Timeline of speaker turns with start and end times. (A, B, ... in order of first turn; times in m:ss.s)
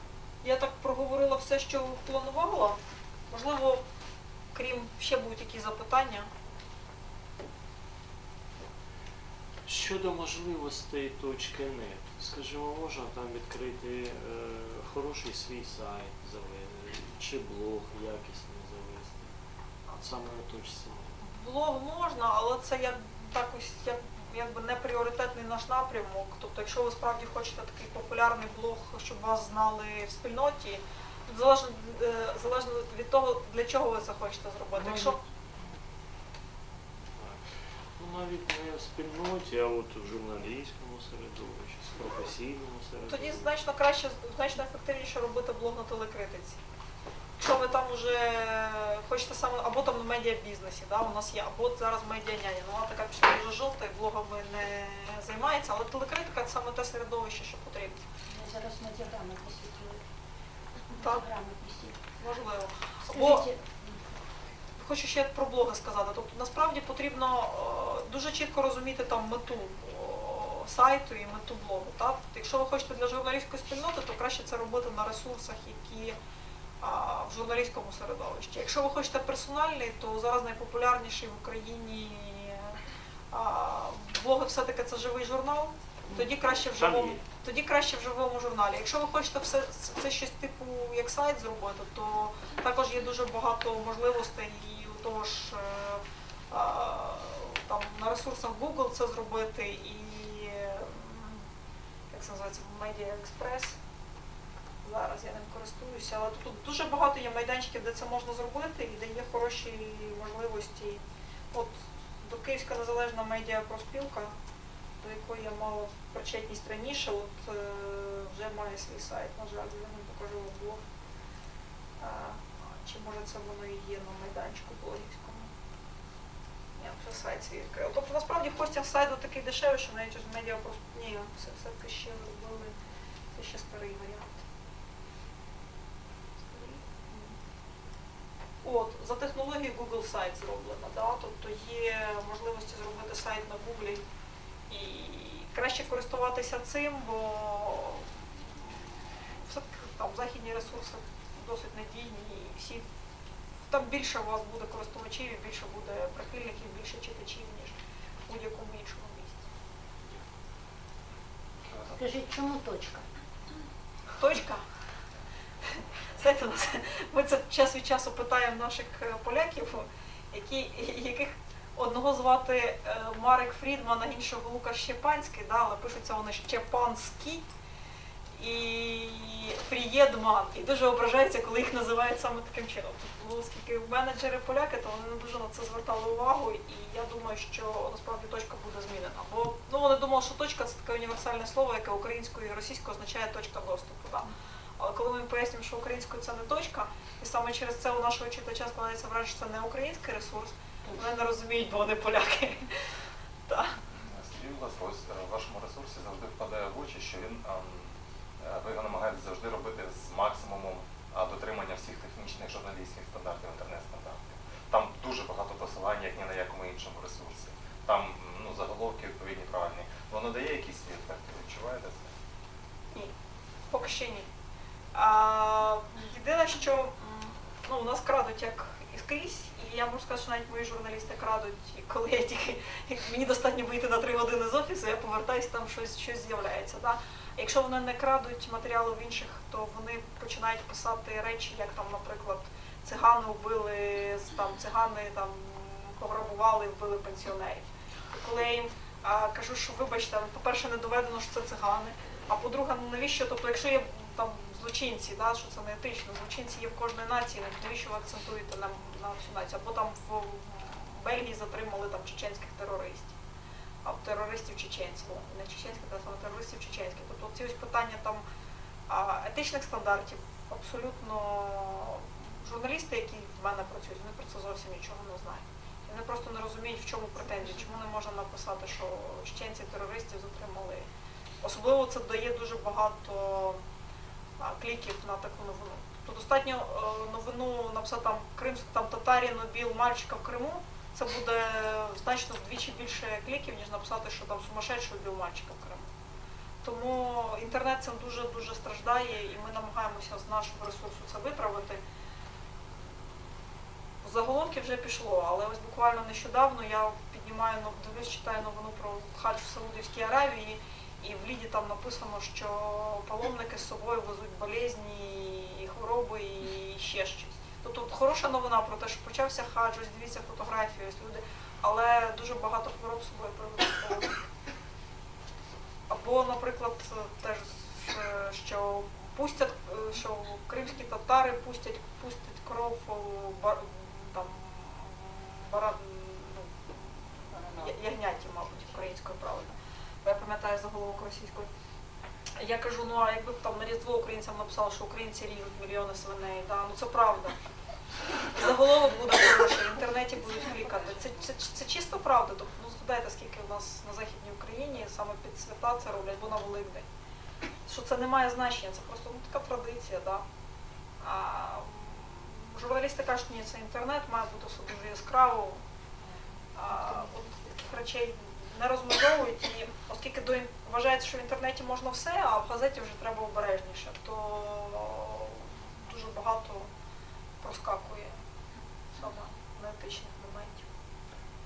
0:00.4-0:02.8 A
0:03.3-0:03.8 A
0:04.5-0:06.3 A
0:09.6-0:19.3 B
0:19.9-0:21.1 B
0:21.2-0:35.2 A
0:34.7-0:35.2 B
0:38.0-0:43.5 B
0:43.0-0:46.6 A
0:47.4-0:58.0 A
0:58.3-1:00.0 C
1:00.9-1:02.0 C
1:01.0-1:01.3 A
1:02.2-1:03.5 A
1:03.0-1:04.0 C
1:04.8-1:16.1 A
1:16.8-1:22.8 A
1:23.3-1:41.4 A
1:26.1-1:27.2 B
1:42.1-1:43.8 A
1:44.8-1:54.3 A
1:55.0-2:00.8 A
2:02.0-2:05.5 A
2:06.8-2:12.7 A
2:13.3-2:14.4 A
2:16.4-2:17.3 A
2:18.6-2:24.0 A
2:24.7-2:32.8 A
2:33.6-2:37.7 A
2:38.3-2:39.4 A
2:41.6-2:42.0 D
2:41.9-2:43.1 C
2:44.2-2:44.6 A
2:45.8-2:57.4 A
2:58.4-3:22.7 A
3:23.5-3:23.8 A
3:24.0-3:42.1 D
3:43.7-3:44.3 A
3:44.9-4:23.2 A
4:23.8-4:28.2 A
4:28.9-4:40.9 A
4:41.4-4:43.6 A
4:44.4-4:55.9 A
4:56.6-5:01.8 A
5:04.0-5:24.2 A
5:25.9-5:41.5 A
5:42.4-5:47.4 A
5:48.2-5:56.8 A
5:57.6-6:00.2 A
6:01.0-6:05.6 A
6:06.5-6:16.7 A
6:17.4-6:18.2 A
6:19.0-6:20.7 A